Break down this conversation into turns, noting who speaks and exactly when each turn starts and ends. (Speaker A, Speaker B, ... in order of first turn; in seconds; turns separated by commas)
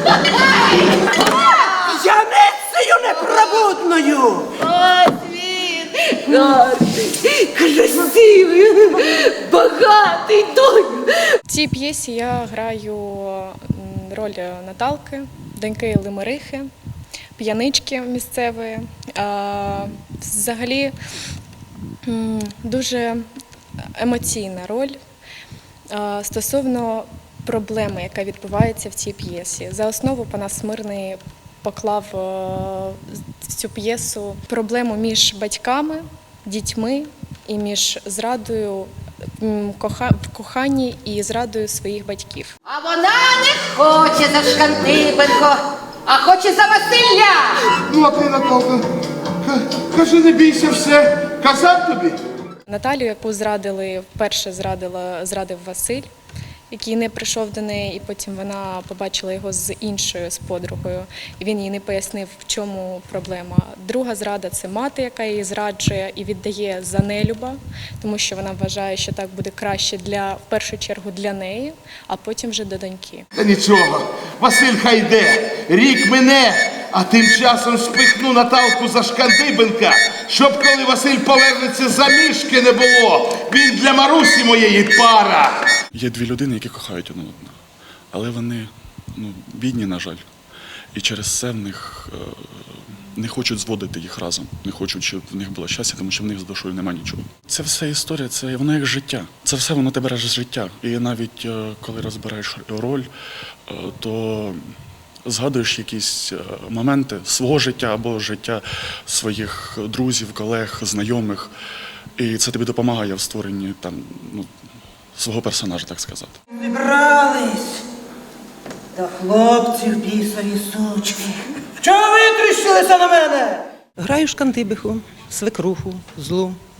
Speaker A: 0.3-1.4, Speaker B: 1.8-4.5, Speaker A: 4.6-11.2, Speaker C: 11.5-16.7, Speaker C: 17.4-20.9, Speaker C: 22.1-23.3, Speaker C: 24.0-25.0, Speaker C: 25.9-42.5, Speaker D: 42.7-47.6, Speaker E: 47.8-48.8, Speaker E: 49.4-52.2, Speaker C: 52.7-56.1, Speaker C: 56.7-73.2, Speaker E: 73.4-85.6, Speaker F: 85.9-87.5, Speaker F: 88.1-90.2, Speaker F: 90.9-103.1, Speaker F: 103.7-104.6, Speaker F: 105.2-111.5, Speaker F: 112.2-114.5, Speaker F: 115.2-116.4, Speaker B: 116.7-117.6, Speaker B: 119.0-121.3, Speaker B: 121.8-123.5, Speaker G: 124.0-126.5